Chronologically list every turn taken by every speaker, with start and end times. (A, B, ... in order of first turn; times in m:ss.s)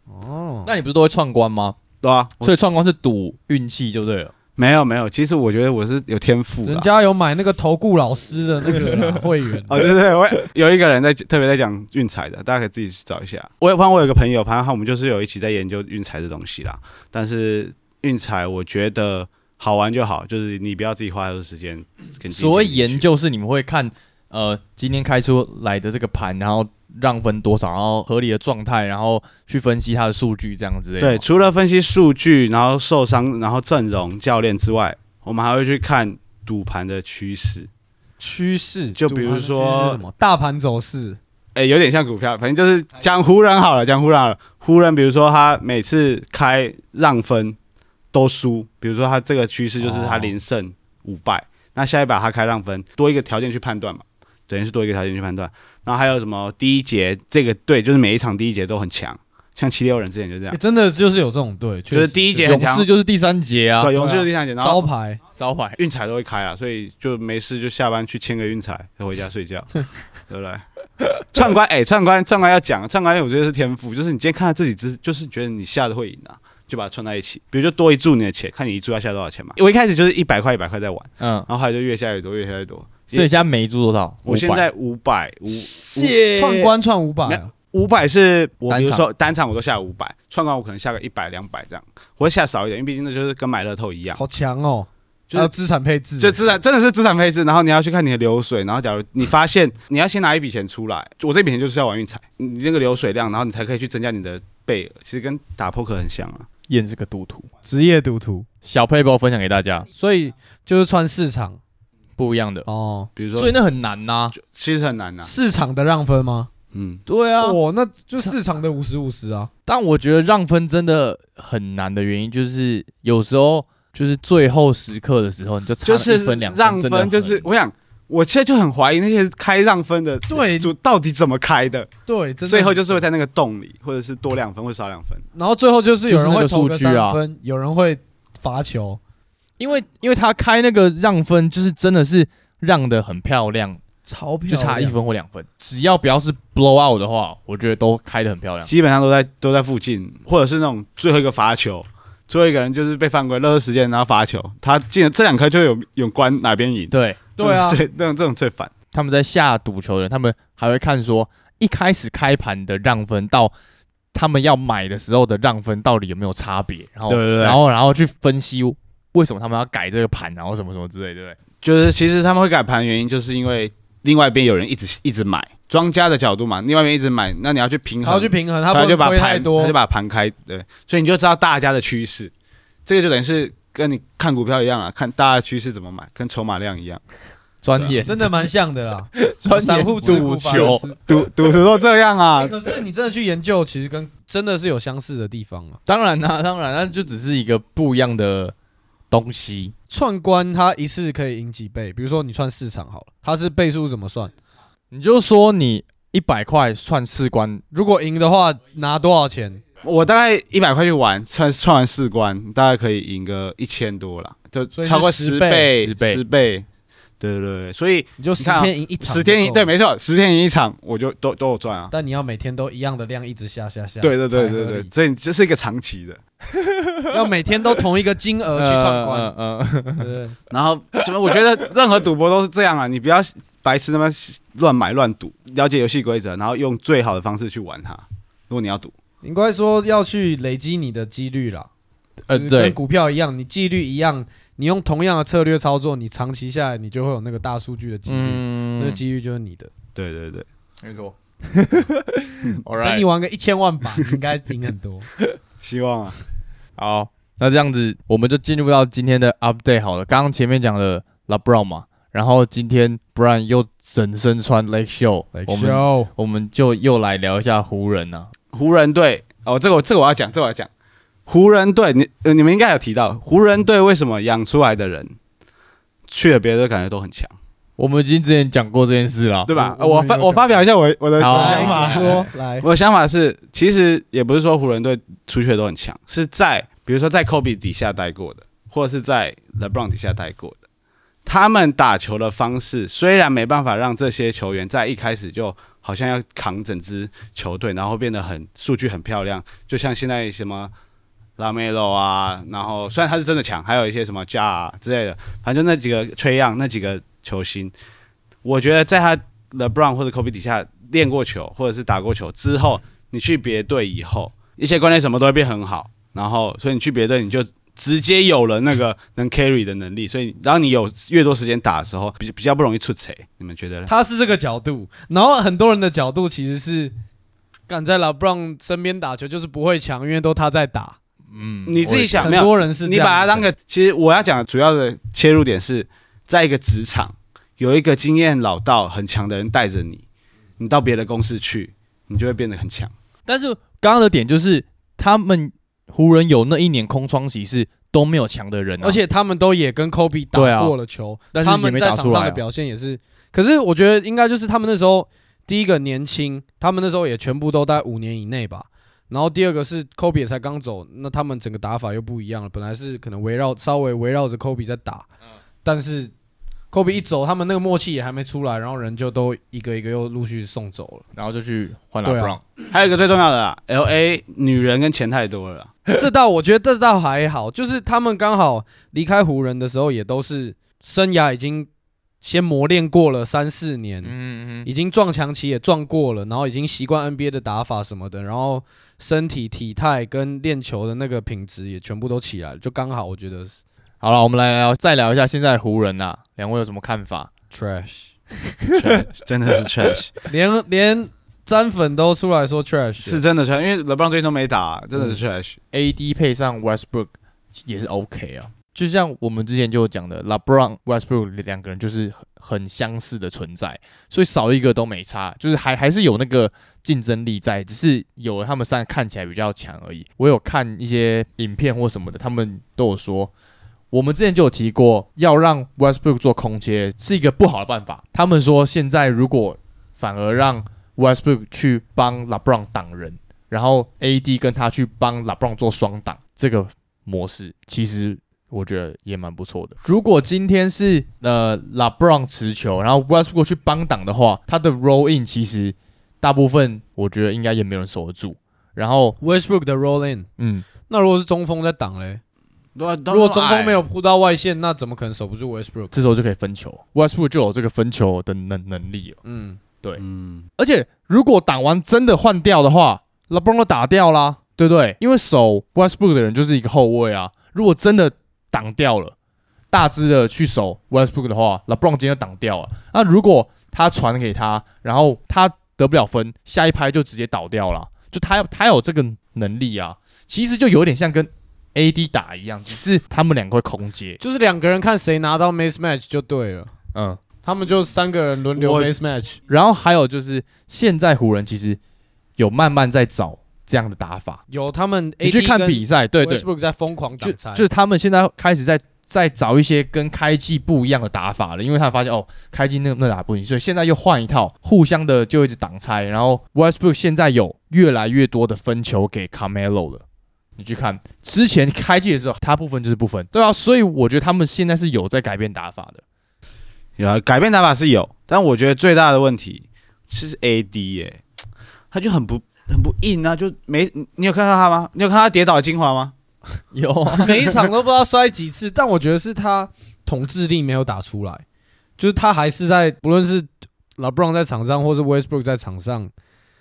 0:00.1-0:00.7 A
0:00.6-0:01.8 B
0:02.0-0:02.6 C
0:02.4-0:04.3 B
0:04.6-0:06.9 C
0:06.6-0:09.8 A
0:09.7-0:23.0 C
0:22.3-0:31.2 B
0:31.0-0:37.7 C
0:38.2-0:41.2 A
0:39.0-0:40.0 C
0:41.6-0:47.6 C
0:48.1-1:00.6 C
0:49.9-0:50.3 A
1:00.5-1:02.5 A
1:01.9-1:02.9 C
1:02.4-1:04.0 B
1:03.8-1:04.9 C
1:04.0-1:05.2 A
1:05.4-1:05.8 B
1:05.8-1:10.6 C
1:11.2-1:23.3 C
1:21.2-1:21.5 B
1:23.1-1:24.7 B
1:24.2-1:26.2 C
1:25.7-1:26.7 B
1:26.3-1:27.5 A
1:27.3-1:34.2 C
1:28.7-1:29.0 B
1:34.2-1:36.4 A
1:36.2-1:46.5 C
1:46.7-1:47.5 B
1:47.6-1:48.5 A
1:48.6-1:49.9 B
1:50.0-1:51.6 A
1:52.2-1:52.7 B
1:52.7-1:53.1 A
1:53.2-1:53.6 C
1:53.4-1:54.3 B
1:54.3-1:55.3 C
1:55.2-1:56.5 A
1:56.7-1:57.0 C
1:57.1-1:57.6 B
1:57.4-1:59.5 A
1:59.7-2:07.5 B
2:05.8-2:11.9 C
2:10.3-2:10.7 A
2:12.1-2:13.0 A
2:12.5-2:15.2 C
2:15.4-2:19.0 A
2:16.1-2:17.2 B
2:19.6-2:23.8 B
2:24.0-2:25.0 A
2:24.5-2:28.7 B
2:28.7-2:38.7 C
2:36.9-2:37.2 B
2:37.4-2:37.8 A
2:38.9-2:43.5 B
2:44.1-2:51.4 B
2:47.1-2:47.6 C
2:51.6-3:02.3 C
2:58.0-2:59.8 A
3:02.9-3:07.0 C
3:07.6-3:08.5 B
3:07.7-3:08.0 C
3:08.0-3:11.0 A
3:09.2-3:10.9 B
3:10.5-3:12.8 C
3:12.4-3:15.8 A
3:15.9-3:18.5 B
3:19.1-3:19.7 B
3:19.9-3:24.3 A
3:24.9-3:27.6 B
3:27.7-3:29.6 A
3:29.8-3:36.7 C
3:34.7-3:35.7 A
3:35.8-3:36.2 B
3:37.2-3:41.9 C
3:38.2-3:39.7 A
3:41.9-3:44.9 A
3:44.0-3:46.2 C
3:46.5-3:47.2 B
3:47.1-3:49.3 A
3:48.6-3:50.1 B
3:50.0-3:50.4 A
3:50.5-3:58.9 C
3:59.2-4:01.7 A
4:02.3-4:02.8 B
4:02.3-4:09.7 A
4:08.1-4:09.0 B
4:10.0-4:10.5 C
4:10.8-4:13.1 B
4:12.8-4:15.1 A
4:15.6-4:16.2 C
4:16.8-4:28.3 B
4:25.3-4:26.1 A
4:28.5-4:30.7 C
4:31.3-4:35.1 C
4:36.1-4:37.4 C
4:37.8-4:39.5 B
4:39.5-4:50.6 C
4:39.5-4:40.6 A
4:41.2-4:42.3 B
4:41.3-4:42.7 A
4:51.3-5:00.7 C
5:01.4-5:07.7 C
5:08.4-5:23.9 C
5:23.9-5:26.9 A
5:27.7-5:31.0 A
5:31.3-5:32.4 B
5:31.7-5:40.0 C
5:32.2-5:33.5 A
5:40.6-5:42.9 C
5:43.3-5:49.0 B
5:48.8-6:05.1 A
5:50.4-5:50.8 B
5:51.3-5:52.4 B
6:05.6-6:06.1 A
6:06.7-6:11.0 A
6:11.1-6:12.4 B
6:12.0-6:12.4 A
6:12.7-6:15.7 C
6:15.9-6:21.7 A
6:22.2-6:33.6 A
6:24.0-6:24.7 B
6:34.0-6:37.3 B
6:37.5-6:38.1 A
6:38.7-6:39.0 B
6:38.7-6:40.1 C
6:40.3-6:43.2 A
6:43.0-6:45.6 C
6:45.7-7:03.3 B
7:03.9-7:29.2 B
7:29.2-7:30.3 A
7:30.4-7:30.7 B
7:30.9-7:32.2 A
7:32.8-7:33.8 C
7:33.1-7:35.9 A
7:35.9-7:39.2 B
7:39.2-7:39.6 A
7:40.0-7:40.4 C
7:40.6-7:49.2 B
7:49.7-8:04.2 B
8:04.2-8:06.7 A
8:06.9-8:07.2 B
8:07.4-8:09.4 A
8:08.6-8:08.9 C
8:09.5-8:11.8 B
8:12.4-8:14.4 B
8:14.5-8:17.7 A
8:15.2-8:16.5 B
8:17.2-8:30.0 B
8:30.6-8:36.0 B
8:37.0-8:41.2 C
8:41.9-8:46.1 C
8:46.7-8:47.5 B
8:47.2-8:51.4 A
8:52.0-8:56.1 A